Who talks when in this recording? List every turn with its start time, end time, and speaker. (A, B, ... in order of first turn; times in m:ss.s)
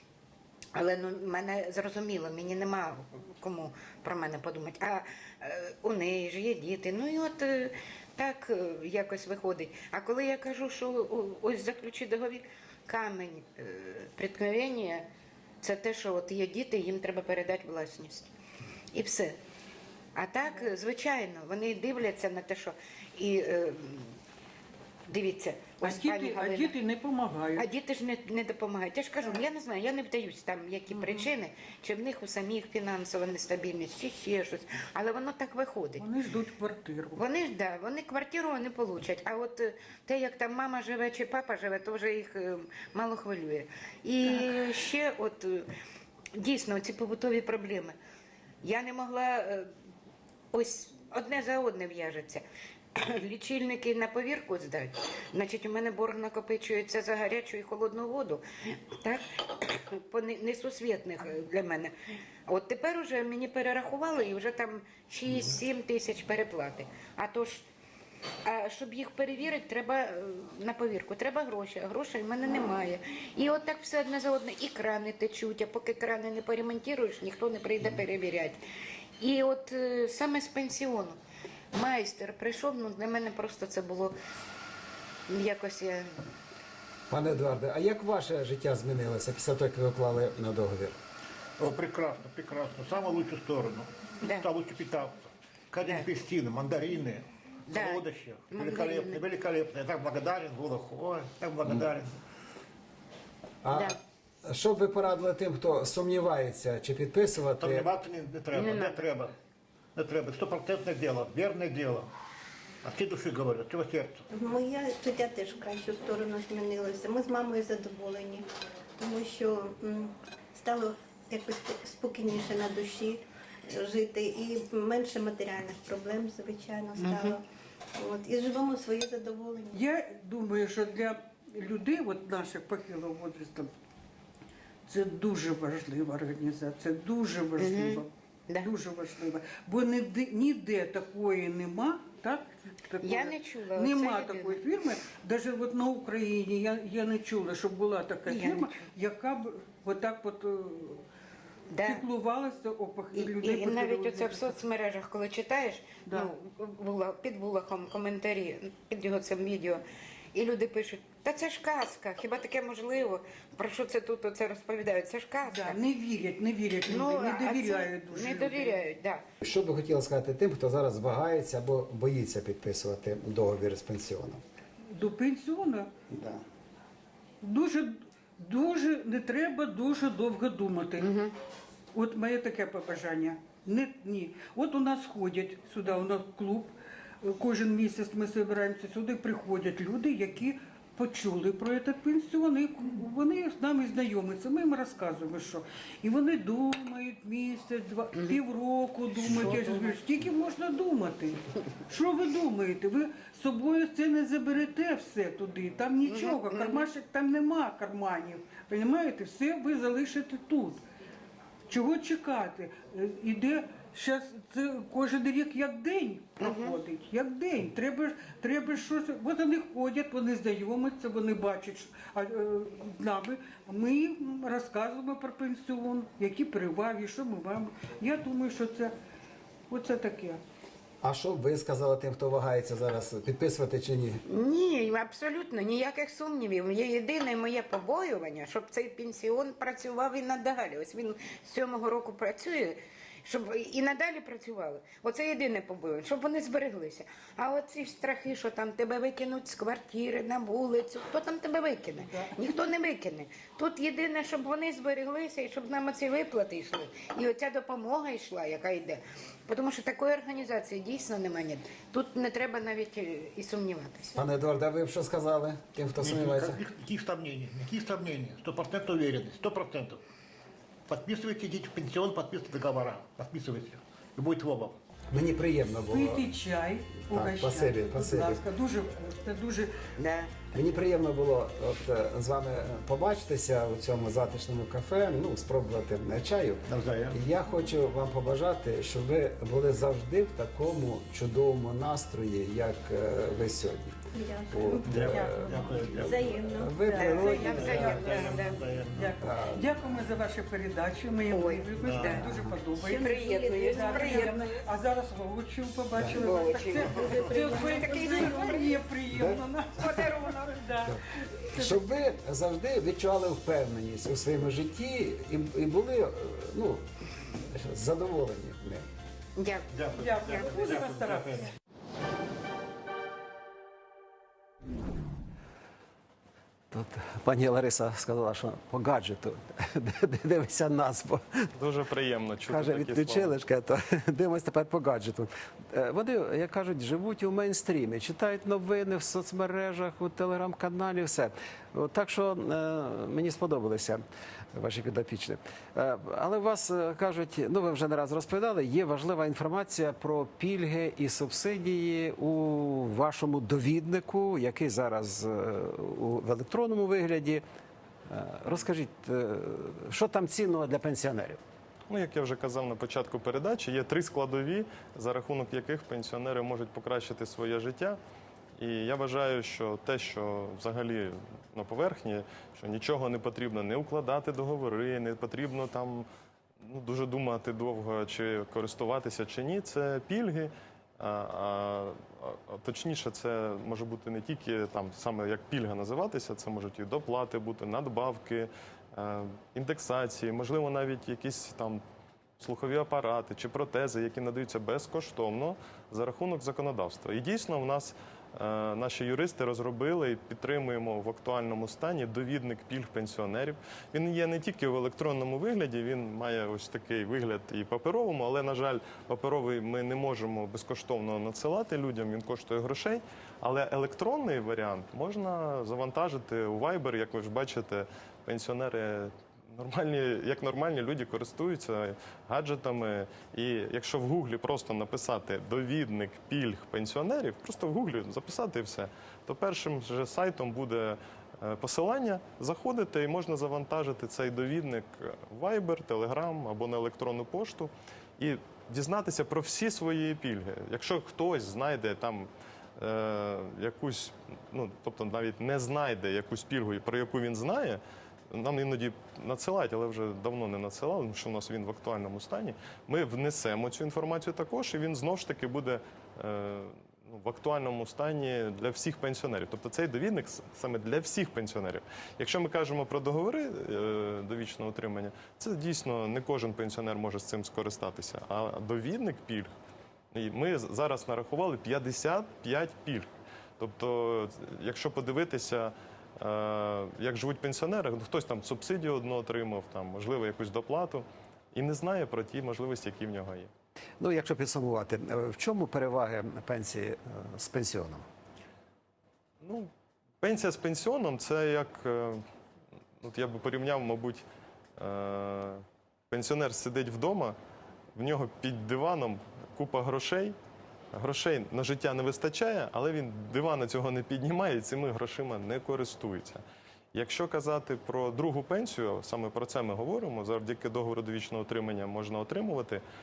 0:00.7-0:15.0 A
0:15.6-0:18.3 A
0:18.9-0:19.4 A
0:20.1-0:24.2 A
0:25.1-0:26.8 A
0:25.8-0:27.6 B
0:27.6-0:36.1 A
0:36.0-0:37.2 B
0:37.1-0:45.7 A
0:46.3-0:47.9 A
0:48.6-0:49.7 A
0:50.5-0:52.4 A
0:52.9-1:01.9 A
1:02.5-1:07.7 A
1:08.4-1:18.6 A
1:19.2-1:21.2 A
1:21.7-1:24.1 A
1:25.3-1:26.2 A
1:27.1-1:31.0 C
1:31.6-1:42.1 D
1:37.7-1:39.2 A
1:43.6-1:47.9 C
1:43.7-1:44.0 A
1:47.6-1:49.3 D
1:48.5-1:49.0 A
1:49.9-1:52.1 D
1:52.8-1:54.2 D
1:54.3-1:58.4 E
1:59.0-2:07.4 E
2:07.0-2:07.4 A
2:08.0-2:09.8 E
2:09.7-2:13.7 B
2:14.8-2:31.0 B
2:17.6-2:18.7 A
2:23.0-2:24.6 A
2:28.3-2:28.8 A
2:31.7-2:32.0 A
2:31.8-2:34.5 B
2:33.1-2:39.8 A
2:36.1-2:36.3 B
2:40.3-2:45.8 A
2:45.5-2:48.8 B
2:46.8-2:49.2 A
2:49.4-2:54.4 C
2:54.9-2:55.9 B
2:56.1-2:56.4 C
2:57.4-3:01.1 B
3:01.0-3:01.3 A
3:01.9-3:30.8 B
3:19.4-3:19.8 A
3:26.0-3:26.8 A
3:31.7-3:49.0 B
3:36.4-3:36.8 A
3:49.7-3:50.4 B
3:51.0-3:54.2 C
3:54.2-4:24.2 A
4:12.0-4:12.4 B
4:24.2-4:26.6 C
4:26.0-4:30.0 D
4:30.9-4:34.8 D
4:35.1-4:36.3 C
4:35.9-4:39.9 B
4:37.1-4:38.4 C
4:40.0-4:40.3 A
4:40.5-4:54.0 C
4:46.7-4:47.2 D
4:54.1-4:55.1 E
4:54.5-4:58.0 C
4:54.8-4:56.5 D
4:55.1-4:55.5 B
4:55.9-4:57.8 E
4:57.0-4:58.6 A
4:57.0-4:58.1 B
4:57.3-4:59.2 D
4:58.9-5:11.8 B
4:59.2-4:59.6 C
5:01.3-5:04.5 A
5:01.8-5:02.2 D
5:02.2-5:02.5 C
5:02.9-5:04.4 E
5:06.1-5:08.8 A
5:06.8-5:08.6 E
5:09.1-5:09.4 C
5:09.8-5:10.4 A
5:10.8-5:16.9 C
5:17.4-5:18.8 C
5:19.4-5:20.6 A
5:19.7-5:21.5 D
5:19.9-5:21.5 B
5:26.7-5:31.5 C
5:31.6-5:33.3 F
5:32.5-5:44.0 C
5:44.5-5:57.4 C
5:58.1-6:01.4 C
6:01.9-6:08.0 F
6:08.6-6:16.1 F
6:16.6-6:31.8 F
6:32.4-7:49.5 F
7:50.1-8:03.5 F
8:04.0-8:08.0 C
8:09.4-8:09.7 F
8:10.2-8:12.2 F
8:13.0-8:14.2 F
8:14.8-8:17.4 F
8:17.9-8:20.4 F
8:20.9-8:26.4 F
8:26.9-8:32.8 F